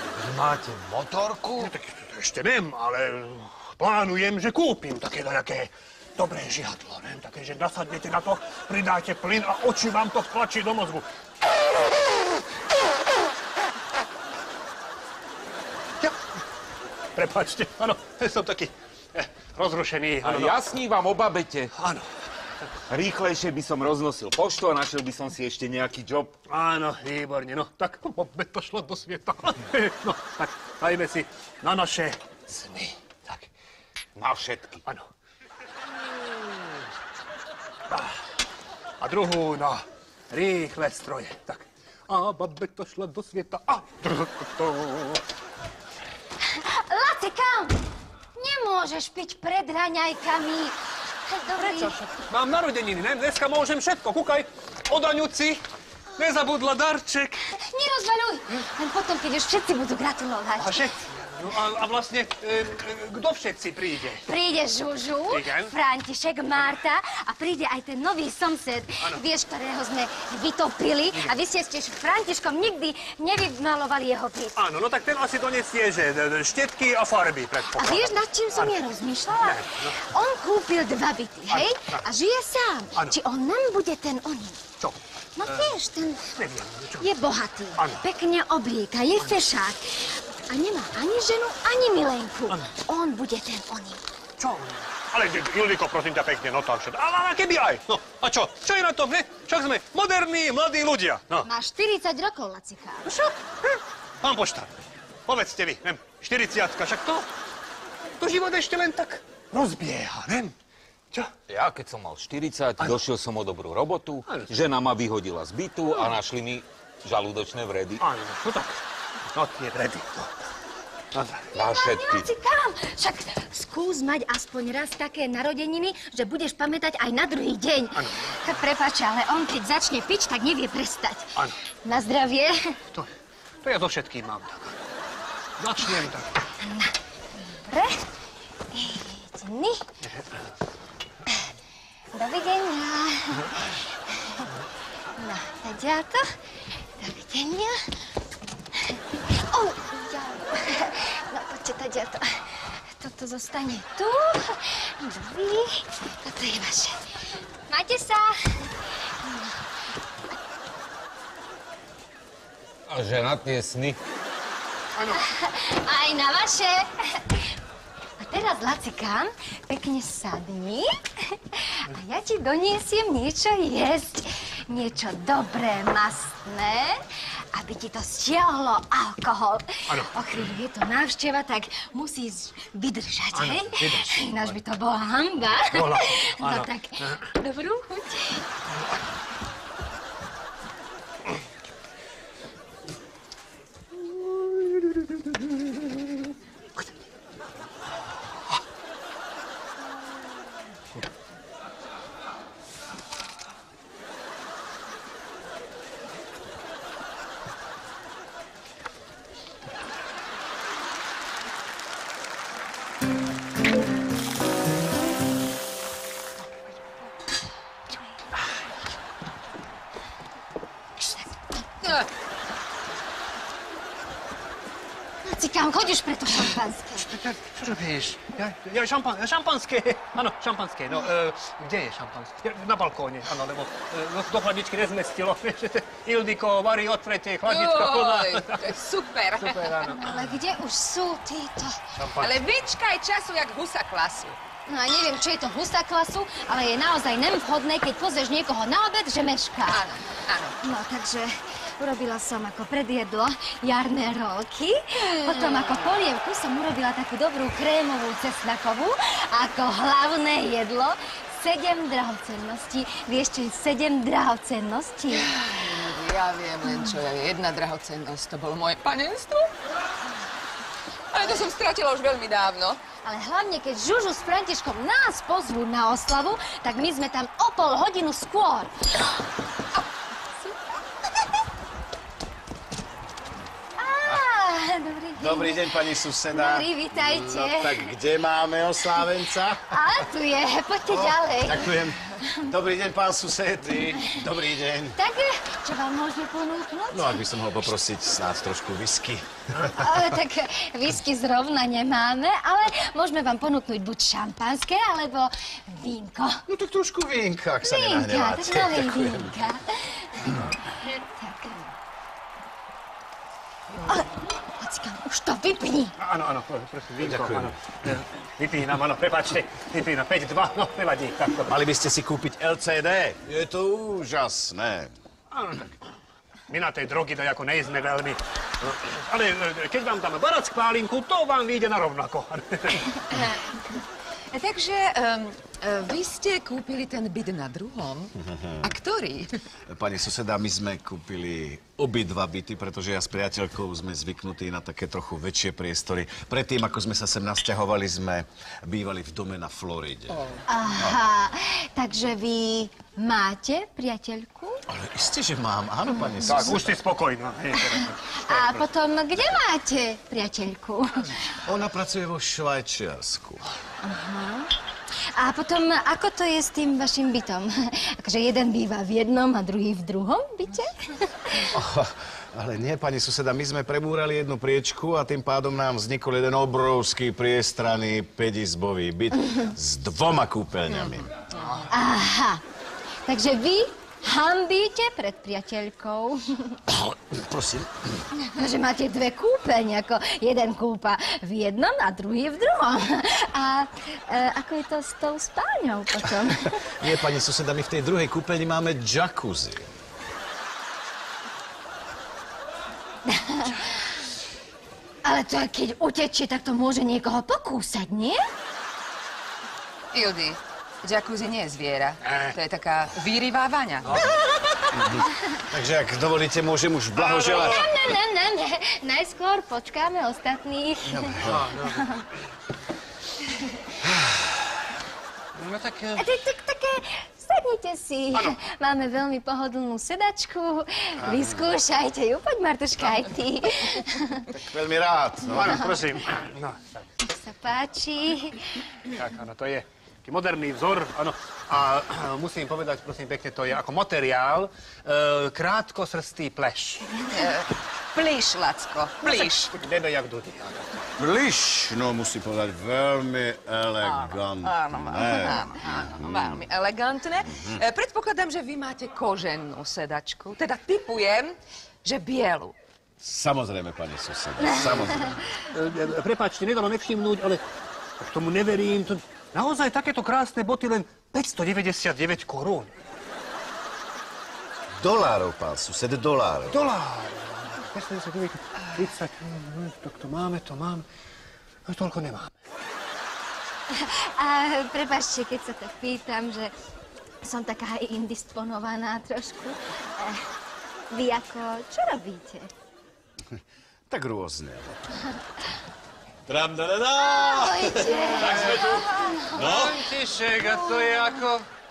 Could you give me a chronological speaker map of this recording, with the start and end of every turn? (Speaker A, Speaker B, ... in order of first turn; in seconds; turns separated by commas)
Speaker A: 0.2-1.7, Speaker B: 1.6-11.1, Speaker B: 16.0-16.2, Speaker B: 17.1-20.7, Speaker A: 20.2-21.7, Speaker B: 21.7-22.1, Speaker A: 22.9-26.3, Speaker B: 26.5-33.5, Speaker A: 34.2-34.8, Speaker B: 39.0-45.2, Speaker C: 46.5-47.8, Speaker C: 48.4-52.0, Speaker B: 51.5-55.6, Speaker B: 56.1-57.5, Speaker C: 57.5-61.0, Speaker B: 60.6-64.2, Speaker C: 64.3-74.6, Speaker B: 65.3-65.7, Speaker B: 74.5-78.8, Speaker C: 77.8-84.7, Speaker B: 79.3-80.0, Speaker B: 81.5-82.0, Speaker B: 84.8-85.7, Speaker C: 85.3-86.2, Speaker B: 86.4-87.1, Speaker C: 87.0-94.0, Speaker B: 87.8-88.0, Speaker B: 89.2-89.5, Speaker B: 94.4-101.5, Speaker C: 101.4-103.1, Speaker B: 103.0-104.7, Speaker B: 105.3-107.3, Speaker B: 108.2-110.5, Speaker A: 111.5-118.0, Speaker B: 118.0-118.8, Speaker B: 119.3-120.4, Speaker B: 121.1-121.5, Speaker A: 121.5-122.3, Speaker C: 121.5-132.8, Speaker B: 127.9-128.4, Speaker B: 133.6-134.8, Speaker B: 135.6-136.3, Speaker C: 136.6-136.9, Speaker C: 137.6-138.0, Speaker C: 138.7-139.8, Speaker C: 142.1-143.6, Speaker C: 145.2-146.3, Speaker C: 147.0-147.8, Speaker C: 148.9-157.0, Speaker C: 157.7-159.6, Speaker A: 162.9-164.0, Speaker B: 165.0-165.2, Speaker C: 165.1-167.5, Speaker C: 168.2-177.0, Speaker C: 177.5-188.5, Speaker B: 179.9-180.1, Speaker B: 183.3-184.6, Speaker B: 185.7-187.2, Speaker C: 221.0-221.6, Speaker C: 225.2-227.1, Speaker B: 227.1-238.8, Speaker D: 237.4-239.9, Speaker B: 239.4-240.1, Speaker C: 239.8-241.8, Speaker B: 241.9-242.4, Speaker D: 242.2-244.4, Speaker C: 244.7-249.9, Speaker D: 249.7-250.6, Speaker C: 250.6-265.3, Speaker D: 255.2-256.0, Speaker D: 265.1-269.5, Speaker D: 271.1-272.8, Speaker C: 273.0-278.7, Speaker C: 283.8-285.7, Speaker E: 285.1-289.8, Speaker C: 286.3-287.9, Speaker C: 289.7-291.9, Speaker E: 290.9-295.0, Speaker C: 294.9-297.2, Speaker E: 296.9-299.9, Speaker C: 299.7-306.4, Speaker E: 306.5-309.4, Speaker C: 307.6-311.7, Speaker C: 313.9-315.9, Speaker B: 316.0-321.5, Speaker E: 317.0-317.5, Speaker E: 321.4-324.9, Speaker B: 325.3-325.7, Speaker B: 326.5-333.0, Speaker D: 333.1-333.4, Speaker D: 334.3-339.4, Speaker E: 338.2-338.7, Speaker E: 339.7-351.0, Speaker C: 350.5-354.6, Speaker E: 354.7-356.7, Speaker B: 356.2-358.6, Speaker C: 358.2-361.3, Speaker E: 361.4-363.4, Speaker C: 363.8-364.5, Speaker C: 365.1-371.5, Speaker E: 371.5-381.1, Speaker D: 380.7-381.6, Speaker C: 381.7-382.4, Speaker C: 383.1-386.6, Speaker E: 387.1-387.7, Speaker C: 388.2-396.6, Speaker E: 396.2-399.7, Speaker C: 403.1-403.6, Speaker C: 405.0-408.2, Speaker D: 409.9-414.0, Speaker B: 412.0-412.4, Speaker E: 414.8-417.7, Speaker B: 416.9-417.6, Speaker C: 417.3-421.1, Speaker E: 420.8-421.5, Speaker B: 421.2-421.9, Speaker C: 421.6-422.0, Speaker B: 425.3-426.1, Speaker C: 425.9-434.2, Speaker E: 431.0-431.5, Speaker E: 434.3-435.7, Speaker B: 435.3-436.8, Speaker C: 437.0-438.6, Speaker B: 438.9-446.9, Speaker D: 447.0-449.5, Speaker B: 449.0-450.9, Speaker E: 451.0-456.4, Speaker D: 453.8-462.6, Speaker E: 463.0-465.2, Speaker B: 465.5-467.4, Speaker B: 468.0-472.7, Speaker E: 474.8-476.7, Speaker B: 476.5-480.9, Speaker B: 481.7-482.3, Speaker C: 483.7-486.5, Speaker C: 487.2-490.3, Speaker C: 490.9-492.5, Speaker E: 493.9-494.8, Speaker F: 496.3-499.8, Speaker C: 497.0-499.4, Speaker B: 498.2-498.7, Speaker B: 499.3-501.5, Speaker C: 500.4-501.1